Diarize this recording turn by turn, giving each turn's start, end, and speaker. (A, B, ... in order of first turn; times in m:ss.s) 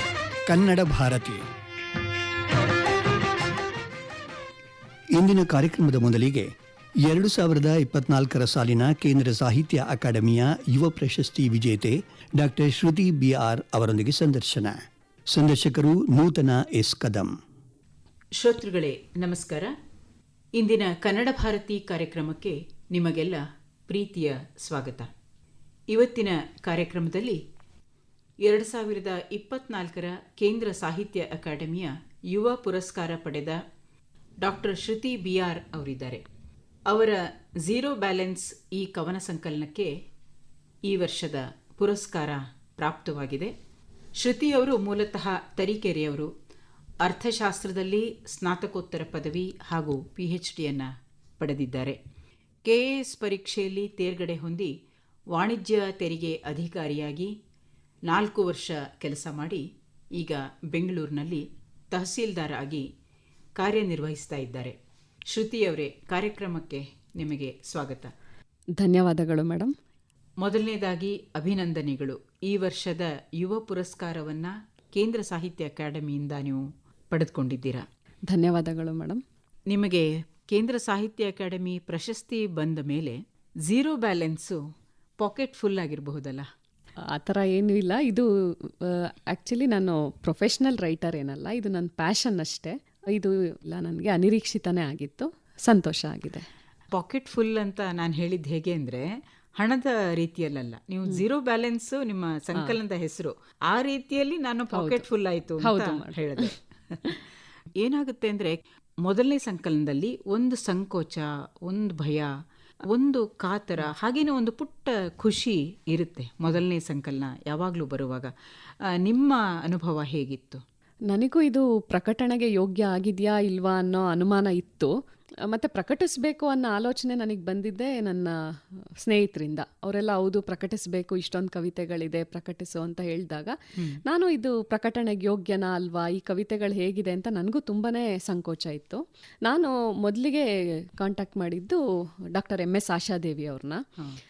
0:00.5-0:01.4 A
0:05.1-0:17.4 A
0:18.4-0:19.7 B
0:20.6-0:25.1 B
0:25.9-0:27.4 B
0:28.4-0:33.6 B
0:34.4-0:36.2 B
0:36.9-0:39.9 B
0:40.9-0:43.5 B
0:44.2-0:46.3 B
0:47.0-0:52.0 B
0:52.7-0:54.7 B
0:55.3-0:57.3 B
0:58.1-1:02.9 B
1:03.6-1:04.8 B
1:05.3-1:08.1 B
1:08.8-1:09.8 C
1:10.4-1:17.9 B
1:18.3-1:19.2 C
1:19.7-1:24.6 B
1:25.2-1:26.5 B
1:27.1-1:36.5 C
1:36.9-1:47.2 B
1:44.7-1:45.0 C
1:45.6-1:46.5 C
1:47.8-1:52.3 B
1:52.9-1:58.3 B
1:59.0-2:00.6 B
2:01.1-2:04.9 C
2:05.5-2:21.8 C
2:22.3-2:23.8 C